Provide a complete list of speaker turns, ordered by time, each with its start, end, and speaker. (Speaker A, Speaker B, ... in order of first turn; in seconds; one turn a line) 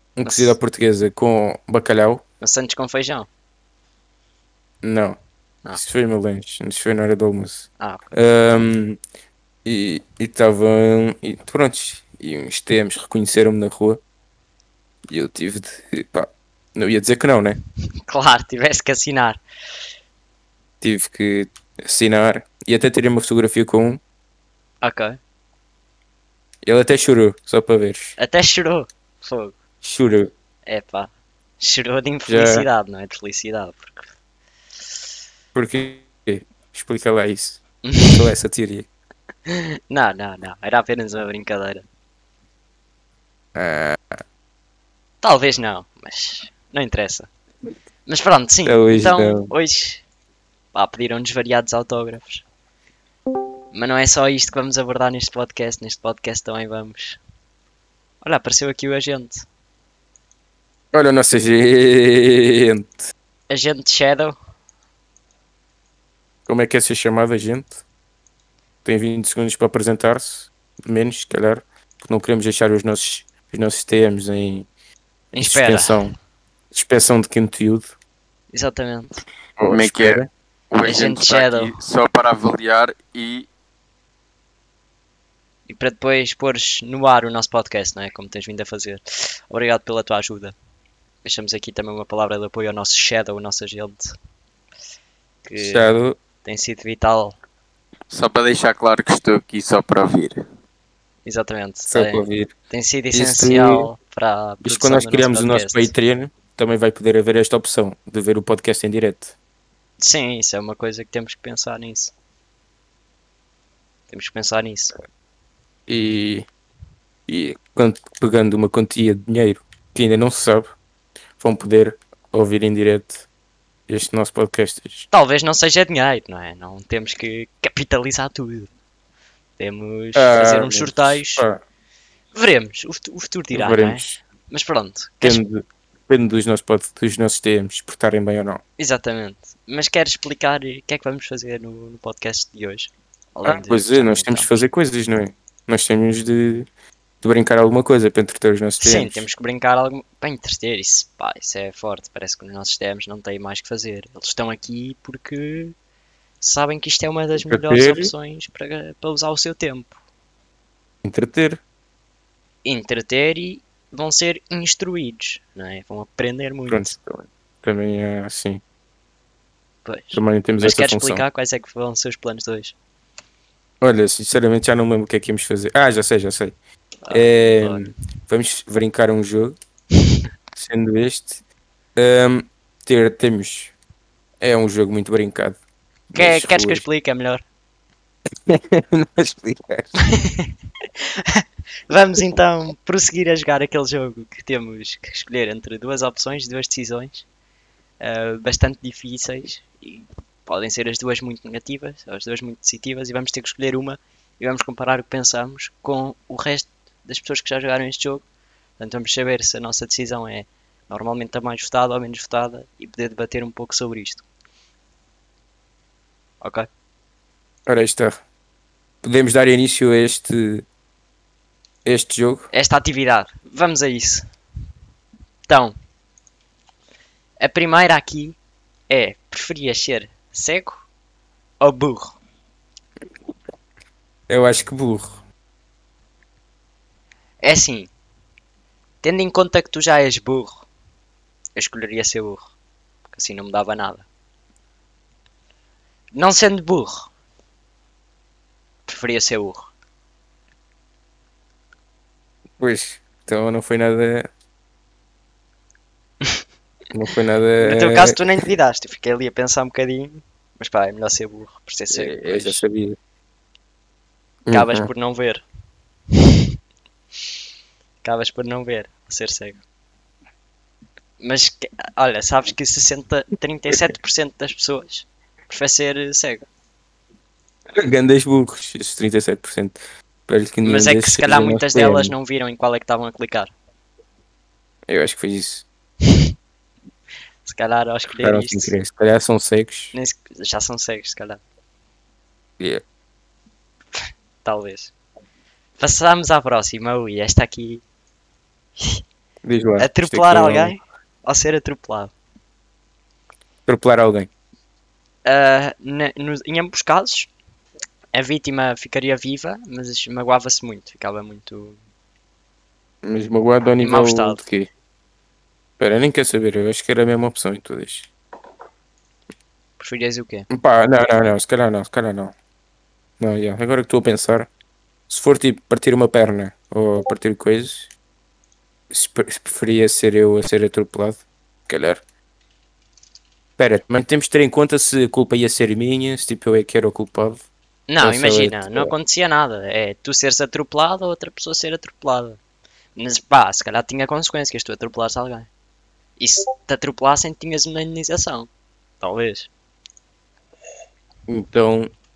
Speaker A: 0.1-2.2
Speaker B: 0.2-0.5
Speaker B: 2.4-3.3
Speaker A: 4.8-5.2
Speaker A: 5.7-9.0
Speaker A: 9.6-14.0
Speaker A: 15.1-17.6
Speaker B: 18.1-19.4
Speaker A: 20.8-24.0
Speaker B: 24.8-25.2
Speaker A: 26.6-28.1
Speaker B: 28.2-29.6
Speaker A: 29.8-30.3
Speaker B: 30.6-34.1
Speaker A: 32.3-32.7
Speaker A: 35.5-38.9
Speaker B: 37.8-38.2
Speaker B: 39.5-41.9
Speaker A: 43.5-44.2
Speaker B: 45.2-47.3
Speaker B: 48.0-50.0
Speaker A: 48.6-49.5
Speaker B: 50.7-52.4
Speaker B: 53.7-57.2
Speaker B: 58.2-59.5
Speaker A: 60.9-63.0
Speaker B: 63.5-64.3
Speaker A: 66.5-67.8
Speaker A: 68.8-74.7
Speaker A: 75.3-76.1
Speaker B: 75.3-76.1
Speaker A: 76.7-77.9
Speaker B: 78.5-79.2
Speaker A: 79.6-80.3
Speaker C: 79.6-83.5
Speaker B: 80.8-81.8
Speaker B: 85.7-90.5
Speaker B: 91.2-94.2
Speaker B: 95.5-97.4
Speaker A: 95.6-96.2
Speaker C: 98.1-100.4
Speaker B: 101.2-105.9
Speaker A: 101.9-102.5
Speaker A: 103.1-103.9
Speaker A: 104.6-109.3
Speaker B: 110.0-112.1
Speaker B: 114.1-114.9
Speaker A: 115.9-116.5
Speaker A: 117.3-120.7
Speaker A: 121.4-123.2
Speaker A: 123.9-125.1
Speaker B: 125.1-128.7
Speaker B: 129.6-131.4
Speaker A: 130.1-131.6
Speaker B: 132.3-135.4
Speaker A: 133.5-134.2
Speaker A: 135.2-138.6
Speaker B: 138.8-144.5
Speaker A: 143.4-146.7
Speaker A: 147.2-149.3
Speaker B: 148.8-155.8
Speaker B: 156.4-160.0
Speaker A: 157.4-158.1
Speaker A: 161.0-161.6
Speaker B: 162.6-166.9
Speaker A: 166.7-168.6
Speaker B: 169.8-172.7
Speaker A: 170.1-171.2
Speaker A: 173.8-176.6
Speaker B: 177.0-177.9
Speaker A: 177.1-179.6
Speaker A: 180.5-181.4
Speaker A: 181.9-183.7
Speaker A: 184.4-185.6
Speaker A: 186.1-186.8
Speaker B: 186.1-187.4
Speaker A: 188.4-189.9
Speaker B: 190.0-197.2
Speaker B: 198.0-208.2
Speaker B: 208.8-214.2
Speaker B: 216.4-216.7
Speaker A: 217.7-218.2
Speaker A: 219.0-220.6
Speaker A: 221.8-222.5
Speaker B: 222.5-224.3
Speaker B: 225.5-225.8
Speaker B: 227.4-228.4
Speaker B: 228.9-230.8
Speaker B: 231.6-232.2
Speaker A: 234.3-235.2
Speaker B: 237.4-237.9
Speaker B: 239.0-240.7
Speaker B: 241.6-242.5
Speaker B: 243.1-244.1
Speaker B: 246.1-247.1
Speaker B: 248.8-249.7
Speaker A: 252.6-254.3
Speaker A: 256.9-258.2
Speaker B: 257.6-262.6
Speaker A: 261.9-263.0
Speaker A: 264.5-264.9
Speaker B: 264.5-265.4
Speaker B: 268.0-269.6
Speaker B: 271.2-276.5
Speaker A: 277.8-279.8
Speaker A: 280.3-282.1
Speaker B: 280.6-283.5
Speaker A: 284.9-285.6
Speaker B: 287.4-288.7
Speaker A: 288.2-289.9
Speaker B: 289.9-291.4
Speaker B: 294.0-294.9
Speaker B: 295.8-297.8
Speaker B: 298.8-299.0
Speaker A: 299.4-300.7
Speaker B: 299.8-302.1
Speaker A: 303.6-304.3
Speaker B: 305.2-307.3
Speaker B: 308.1-311.8
Speaker A: 313.0-314.7
Speaker B: 313.8-314.4
Speaker A: 315.8-318.1
Speaker B: 319.8-320.5
Speaker A: 320.5-322.3
Speaker A: 323.2-324.5
Speaker A: 325.1-327.9
Speaker A: 328.9-332.0
Speaker A: 333.6-337.4
Speaker B: 337.9-342.4
Speaker A: 338.0-338.9
Speaker B: 342.9-345.5
Speaker B: 346.2-348.5
Speaker B: 349.0-349.5
Speaker A: 351.3-351.9